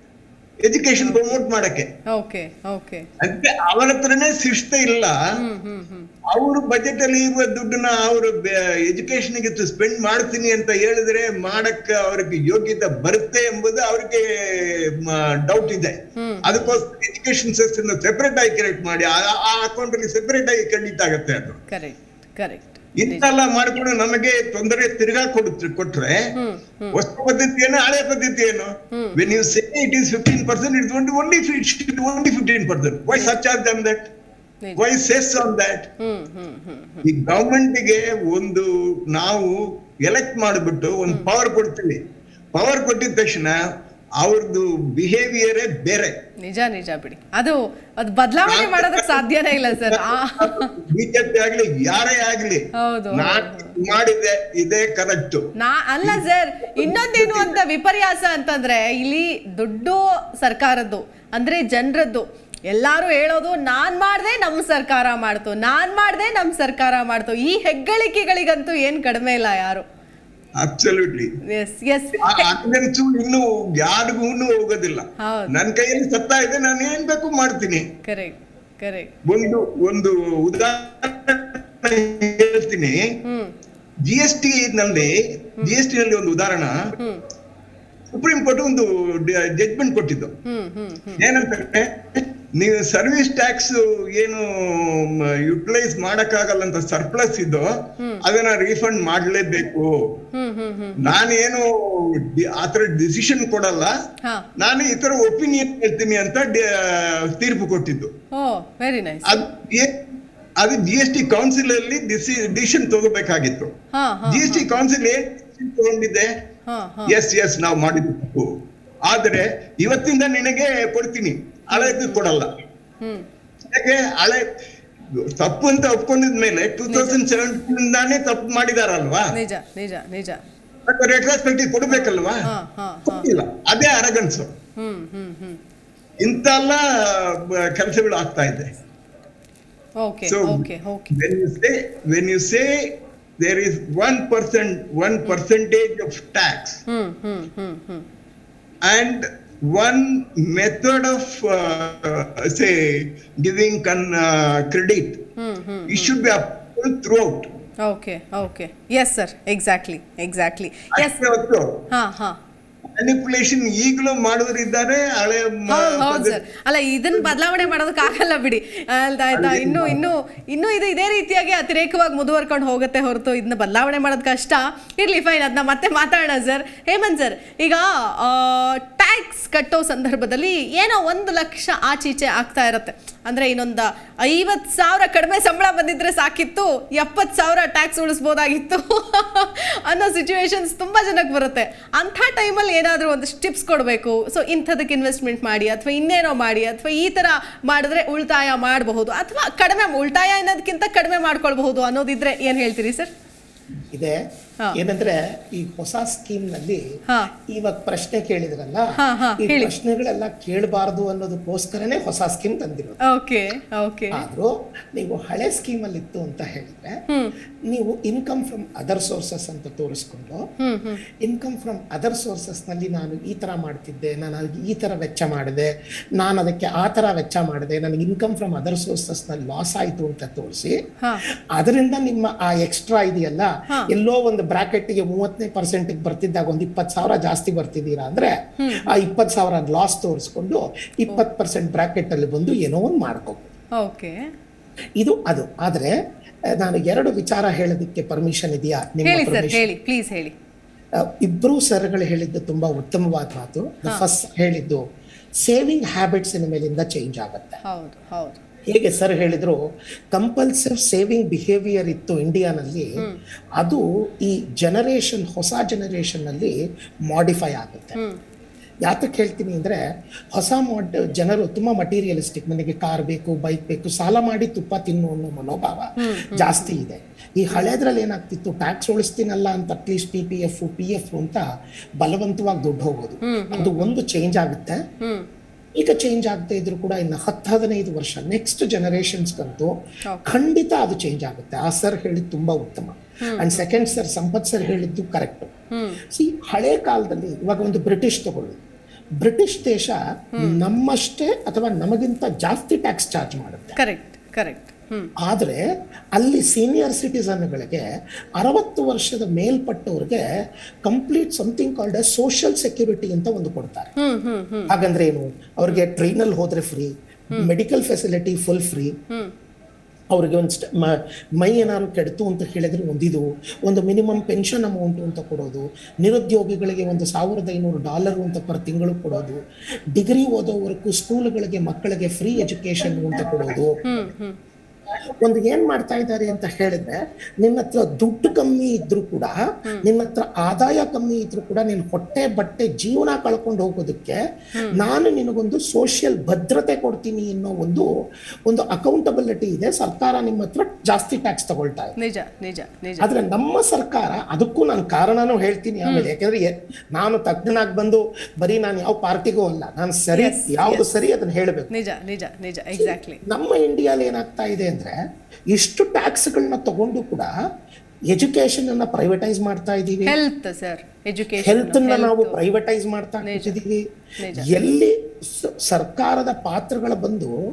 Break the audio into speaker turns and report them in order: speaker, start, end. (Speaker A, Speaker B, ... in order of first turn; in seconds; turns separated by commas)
Speaker A: 0.6-1.9, Speaker B: 2.1-3.1, Speaker A: 3.2-5.2, Speaker B: 5.4-6.1, Speaker A: 6.3-21.6, Speaker B: 16.2-16.8, Speaker B: 21.7-23.3, Speaker A: 23.0-26.3, Speaker B: 26.4-27.0, Speaker A: 26.9-34.1, Speaker B: 28.9-29.4, Speaker A: 34.8-35.9, Speaker B: 36.0-37.0, Speaker A: 37.0-42.0, Speaker A: 42.5-43.6, Speaker A: 44.2-46.2, Speaker B: 46.4-50.7, Speaker A: 48.5-55.5, Speaker B: 52.8-53.8, Speaker B: 55.6-69.8, Speaker A: 56.8-57.5, Speaker A: 70.6-71.4, Speaker B: 71.4-72.5, Speaker A: 72.2-77.9, Speaker B: 75.2-75.6, Speaker B: 78.0-79.1, Speaker A: 79.2-83.1, Speaker B: 83.2-83.5, Speaker A: 84.0-87.0, Speaker B: 87.0-87.2, Speaker A: 88.1-90.4, Speaker B: 90.5-91.2, Speaker A: 91.2-100.2, Speaker B: 100.3-101.1, Speaker A: 101.0-103.9, Speaker A: 104.6-108.1, Speaker B: 108.3-109.4, Speaker A: 109.3-110.0, Speaker A: 110.6-113.7, Speaker B: 113.9-114.7, Speaker A: 114.3-116.3, Speaker B: 116.7-117.2, Speaker A: 117.1-122.5, Speaker B: 121.7-122.3, Speaker B: 123.0-123.3, Speaker A: 123.7-124.5, Speaker A: 125.2-129.4, Speaker B: 126.9-127.2, Speaker B: 129.3-130.4, Speaker A: 130.9-132.5, Speaker B: 131.9-133.3, Speaker A: 133.1-134.6, Speaker B: 134.8-135.6, Speaker A: 136.2-138.8, Speaker B: 140.0-141.1, Speaker A: 140.3-146.8, Speaker B: 146.9-148.1, Speaker A: 148.8-155.3, Speaker B: 155.4-156.1, Speaker A: 155.9-157.5, Speaker B: 157.8-161.2, Speaker A: 160.9-161.9, Speaker B: 161.9-162.4, Speaker A: 162.9-166.4, Speaker B: 165.7-203.1, Speaker A: 169.3-170.0, Speaker C: 203.9-204.2, Speaker C: 204.7-206.8, Speaker C: 207.5-213.0, Speaker B: 209.0-209.7, Speaker B: 213.0-214.3, Speaker C: 214.1-217.0, Speaker B: 217.1-217.3, Speaker C: 217.7-220.5, Speaker B: 220.6-221.0, Speaker C: 221.1-230.8, Speaker C: 231.6-243.5, Speaker B: 238.6-238.9, Speaker B: 243.8-244.3, Speaker C: 245.0-246.0, Speaker C: 246.5-249.7, Speaker B: 249.0-250.3, Speaker C: 251.0-254.8, Speaker C: 255.4-257.6, Speaker B: 257.6-258.4, Speaker C: 258.7-259.6, Speaker C: 260.1-263.0, Speaker C: 263.6-266.6, Speaker C: 267.1-268.0, Speaker C: 268.9-269.8, Speaker C: 270.3-281.5, Speaker B: 276.0-276.7, Speaker C: 282.0-284.8, Speaker B: 283.2-283.9, Speaker B: 285.0-285.3, Speaker C: 285.8-289.7, Speaker C: 290.2-295.5, Speaker B: 293.2-293.6, Speaker B: 295.7-296.0, Speaker C: 296.1-298.6, Speaker C: 299.2-303.8, Speaker B: 303.8-305.1, Speaker C: 305.2-305.6, Speaker C: 306.1-307.9, Speaker C: 308.4-310.2, Speaker C: 310.8-313.9, Speaker B: 314.0-314.7, Speaker C: 314.7-318.9, Speaker C: 320.1-329.4, Speaker C: 329.9-333.8, Speaker B: 333.8-334.4, Speaker C: 335.1-344.2, Speaker B: 344.6-344.8, Speaker C: 344.7-347.9, Speaker C: 348.5-351.9, Speaker B: 352.0-353.1, Speaker C: 353.0-361.7, Speaker B: 355.9-356.1, Speaker B: 360.1-360.9, Speaker B: 361.7-363.2, Speaker C: 362.8-365.0, Speaker C: 365.5-367.3, Speaker C: 368.1-370.2, Speaker B: 370.1-372.4, Speaker C: 371.4-377.4, Speaker B: 373.2-373.6, Speaker B: 374.2-374.5